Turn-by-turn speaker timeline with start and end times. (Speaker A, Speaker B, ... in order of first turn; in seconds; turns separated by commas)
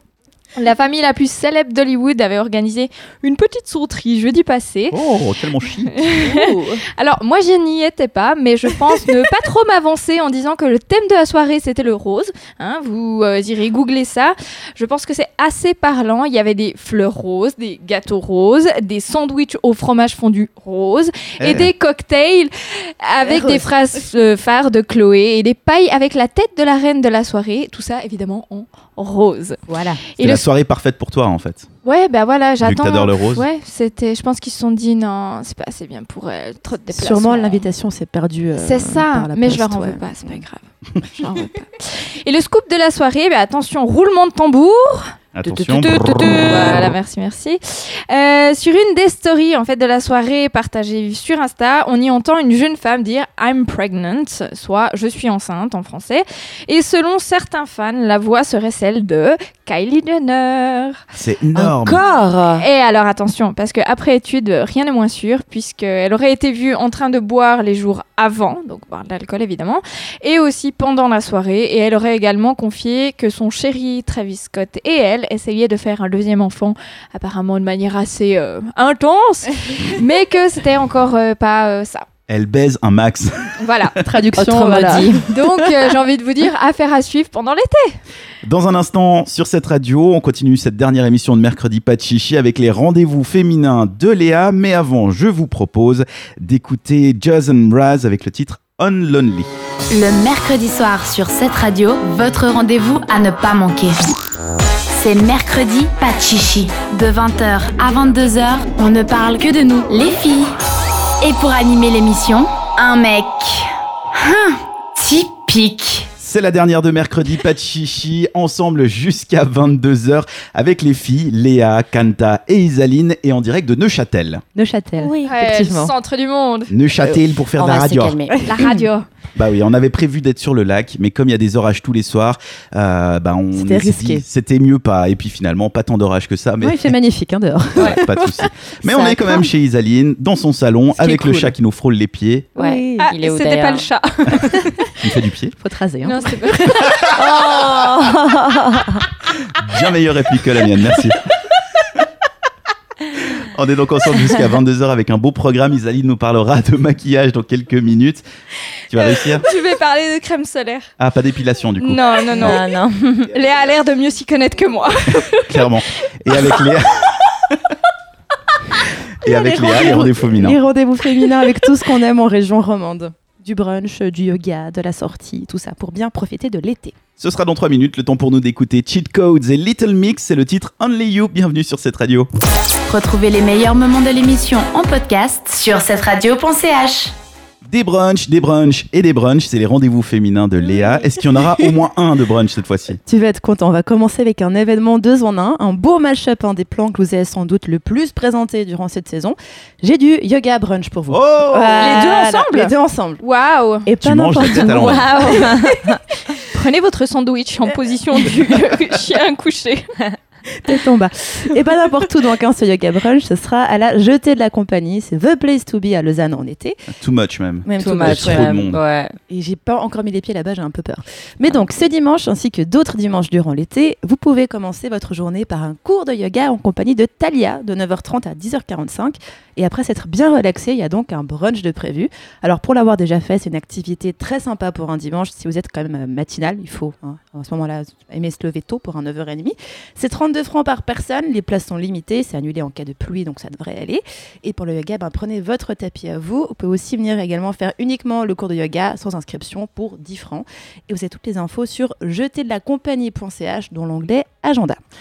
Speaker A: 0.6-5.0, Speaker B: 4.9-6.0, Speaker A: 5.9-29.6, Speaker C: 6.2-6.8, Speaker B: 21.4-21.7, Speaker C: 23.2-23.7, Speaker C: 29.7-30.0, Speaker A: 30.1-30.4, Speaker B: 30.2-31.7, Speaker A: 31.9-37.6, Speaker B: 32.6-33.5, Speaker C: 36.9-40.4, Speaker A: 38.6-45.1, Speaker B: 45.4-46.9, Speaker D: 45.5-46.4, Speaker A: 46.2-61.0, Speaker B: 61.1-62.0, Speaker D: 61.6-62.7, Speaker A: 62.6-82.1, Speaker B: 82.3-83.6, Speaker A: 83.6-84.0, Speaker C: 84.0-85.3, Speaker D: 84.4-85.3, Speaker A: 85.3-88.0, Speaker B: 88.4-99.5, Speaker E: 99.9-104.1, Speaker E: 104.9-110.5, Speaker E: 111.2-116.1, Speaker B: 116.2-124.4, Speaker C: 124.5-125.9, Speaker D: 125.0-125.4, Speaker A: 125.2-126.7, Speaker B: 126.7-128.2, Speaker D: 127.6-128.7, Speaker C: 128.3-128.9, Speaker A: 128.5-129.1, Speaker B: 129.3-136.9, Speaker C: 133.5-134.2, Speaker C: 136.6-139.5, Speaker B: 137.8-142.5, Speaker C: 140.9-141.5, Speaker C: 142.6-143.1, Speaker D: 142.6-143.9, Speaker A: 143.0-144.9, Speaker B: 145.0-145.5, Speaker C: 145.6-146.9, Speaker A: 146.0-146.9, Speaker D: 147.1-149.1, Speaker B: 149.4-151.3, Speaker B: 153.2-158.2, Speaker B: 158.9-159.5, Speaker A: 158.9-160.9, Speaker B: 161.0-162.6, Speaker A: 161.8-162.6, Speaker D: 162.4-163.3, Speaker A: 163.3-165.7, Speaker B: 165.5-167.6, Speaker B: 169.2-170.6, Speaker C: 169.2-177.0, Speaker B: 177.2-182.3, Speaker E: 182.9-187.1, Speaker B: 187.7-193.0, Speaker C: 190.7-191.0, Speaker C: 193.0-203.2, Speaker B: 201.1-201.9, Speaker D: 201.8-202.4, Speaker A: 201.8-202.7, Speaker A: 203.2-203.9, Speaker C: 203.8-205.7, Speaker B: 204.0-205.4, Speaker D: 204.5-206.0, Speaker A: 206.3-209.9, Speaker C: 210.5-216.8, Speaker B: 216.9-218.8, Speaker C: 217.6-218.6, Speaker D: 217.8-219.2, Speaker C: 219.3-254.8